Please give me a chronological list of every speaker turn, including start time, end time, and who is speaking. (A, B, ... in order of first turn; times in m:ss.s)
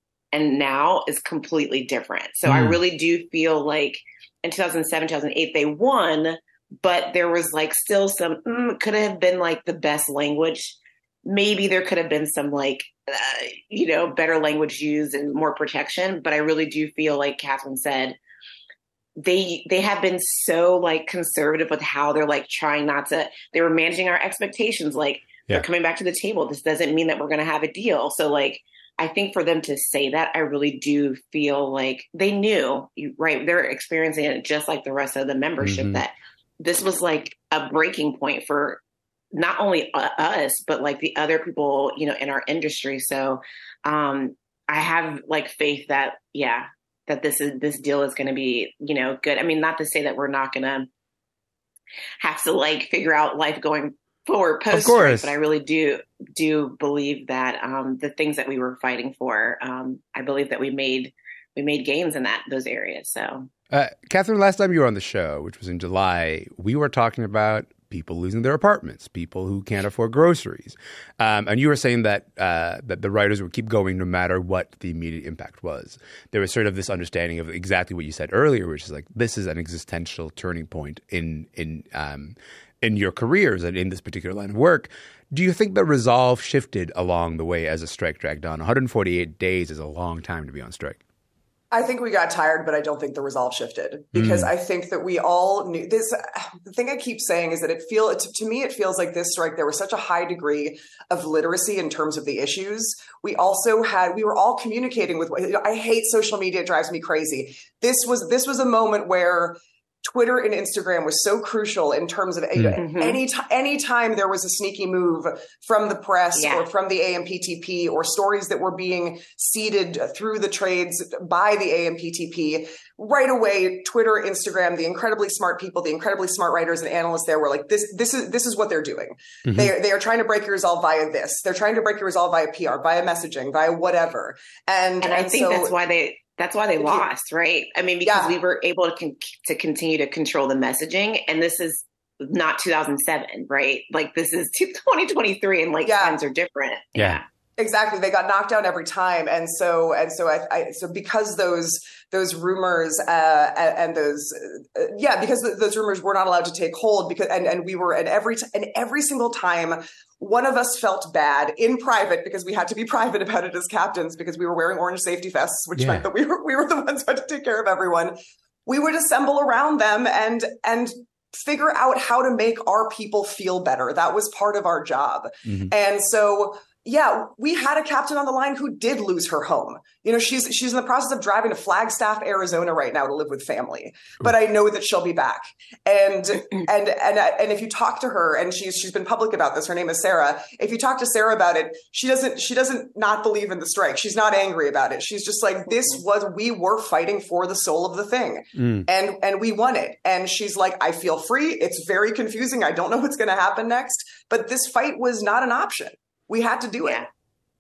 0:00.3-0:18.2 A
0:02.5-0:02.8 B
0:19.2-0:38.8 A
0:35.6-0:36.0 B
0:39.3-0:50.9 A
0:52.2-1:03.5 A
0:54.7-0:55.3 B
1:03.7-1:31.0 B
1:31.7-2:15.8 C
1:34.1-1:34.5 B
1:52.6-1:52.8 B
1:52.8-1:53.2 A
1:56.3-1:56.7 A
2:09.4-2:09.7 B
2:15.0-2:27.2 A
2:16.8-2:17.1 C
2:18.0-2:18.4 C
2:25.9-2:26.2 C
2:27.0-2:27.2 B
2:27.6-2:48.2 C
2:45.8-2:46.1 B
2:48.7-3:27.1 C
2:55.5-2:55.7 B
3:18.6-3:18.9 B